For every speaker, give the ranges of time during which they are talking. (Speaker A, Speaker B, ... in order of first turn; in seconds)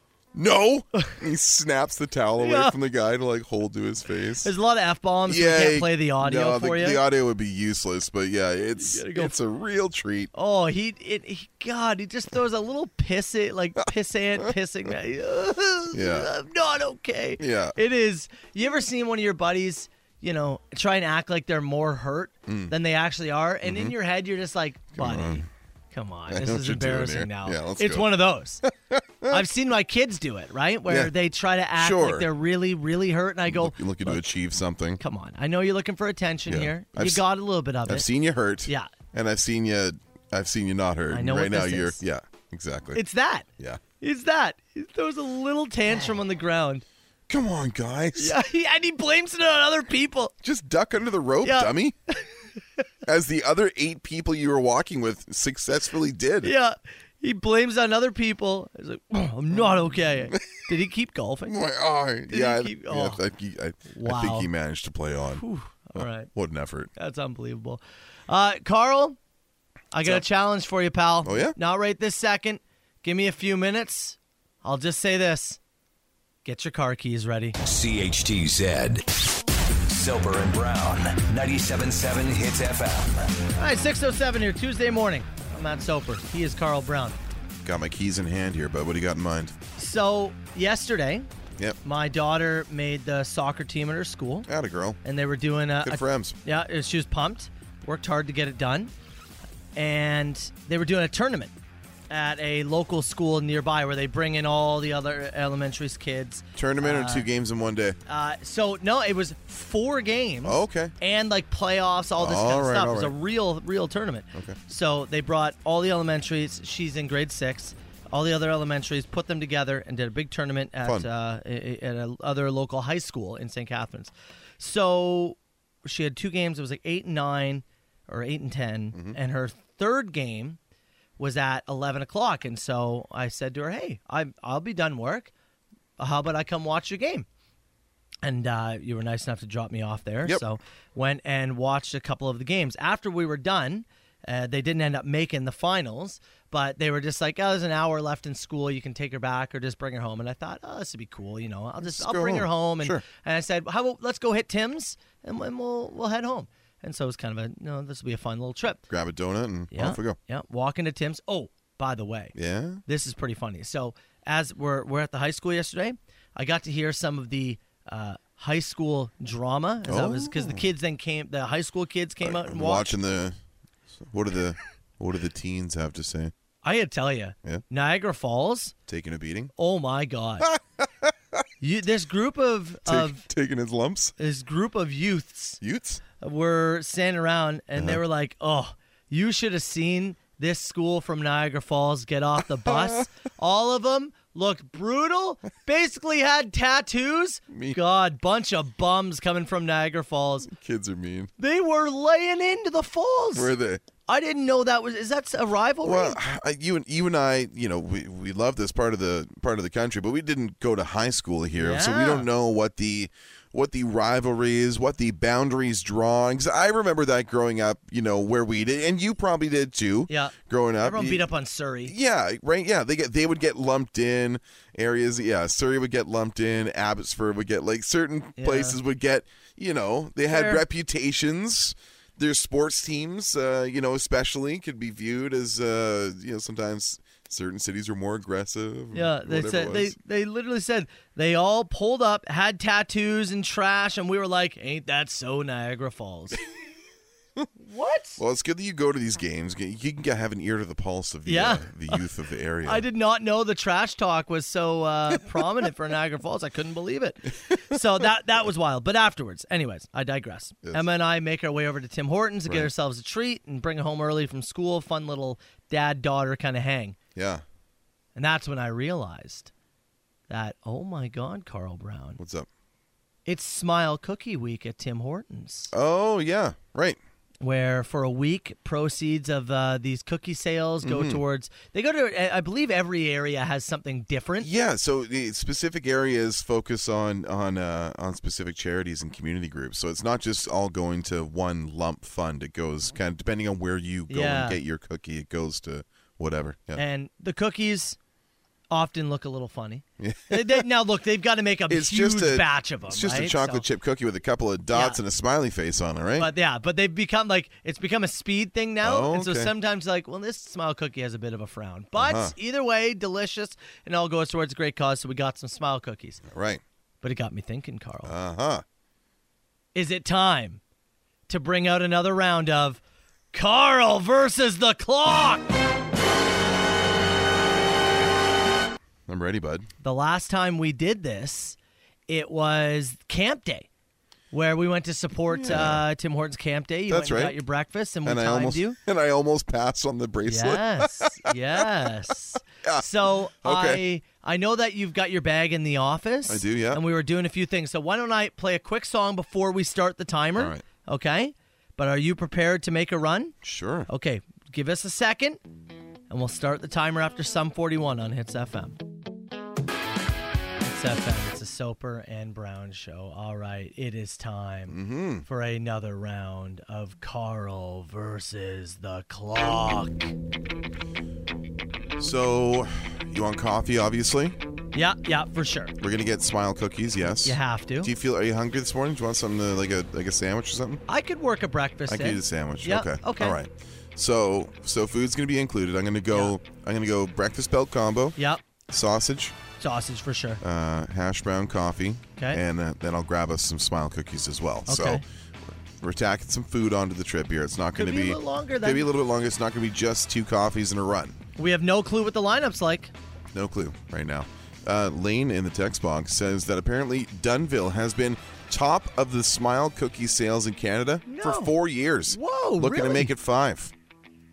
Speaker A: 0.3-4.5, 5.3-10.3, 15.9-16.3, 17.4-17.8, 22.5-22.7, 23.6-23.9, 24.9-25.5, 26.3-28.1, 28.6-29.4, 30.9-31.1, 31.8-32.3, 33.5-35.0, 36.5-37.2, 37.9-43.0, 47.3-48.4, 50.4-52.0, 53.0-56.5, 59.6-60.5, 61.5-65.4, 66.0-66.9, 71.2-71.5, 87.6-89.5, 94.5-95.0, 95.8-96.4, 106.5-108.0, 110.4-110.9, 112.2-113.1, 120.8-121.1, 128.9-129.2, 151.8-153.0, 158.9-160.2, 162.3-162.8, 169.8-170.7, 172.2-173.4, 173.9-176.3, 178.9-179.5, 180.4-181.4, 182.9-184.1, 185.6-186.0, 187.8-188.0, 192.7-193.0, 197.5-197.8, 200.4-201.3, 203.3-203.8, 205.8-221.3, 221.8-239.9, 248.2-252.8, 257.5-257.8, 267.1-267.4, 272.2-272.5, 275.7-277.0, 280.8-281.2, 284.4-296.8, 300.0-300.6, 301.7-306.3, 308.8-309.5, 312.0-312.3, 316.2-316.6, 318.0-318.6, 329.1-329.7, 335.3-335.8, 336.9-337.4, 338.0-341.7, 343.4-343.8, 346.3-346.8, 350.4-350.6, 353.4-353.9, 364.7-365.2, 372.0-374.4, 375.8-380.8, 381.9-388.2, 388.7-389.4, 390.4-401.1, 403.3-413.7
Speaker B: 2.4-2.7, 4.4-7.0, 8.8-9.3, 10.3-28.6, 29.3-34.2, 35.0-38.1, 38.6-38.9, 41.1-42.0, 42.9-43.5, 44.0-46.8, 48.1-50.3, 51.4-52.3, 56.4-61.6, 62.3-63.2, 63.9-64.5, 65.3-66.3, 67.0-69.2, 69.9-75.6, 76.4-77.6, 83.6-87.2, 89.8-91.3, 91.8-94.5, 95.0-98.9, 99.8-101.5, 102.1-107.3, 108.1-130.6, 131.2-135.3, 136.0-137.3, 138.2-158.8, 159.7-162.3, 162.8-173.0, 176.6-178.7, 179.6-180.5, 181.6-183.2, 184.2-185.6, 186.2-200.5, 201.4-203.5, 204.1-206.2, 211.6-212.3, 220.1-221.9, 228.4-228.8, 230.3-230.6, 238.9-246.4, 247.6-248.2, 251.2-252.0, 252.6-267.0, 268.1-269.5, 270.3-272.2, 273.2-275.7, 277.4-284.5, 294.1-294.6, 296.8-298.0, 298.7-303.6, 304.7-305.0, 306.2-316.2, 317.0-318.1, 319.8-320.6, 321.3-322.8, 323.3-325.5, 329.8-331.6, 332.1-333.7, 334.3-338.8, 340.2-353.3, 353.9-355.4, 356.1-358.8, 360.6-370.1, 374.7-375.7, 377.2-377.9, 380.9-383.4, 388.2-388.4, 389.6-390.4, 394.7-395.0, 397.8-398.9, 401.4-402.9, 411.1-411.5, 412.1-413.1
Speaker C: 77.6-79.0, 79.9-83.3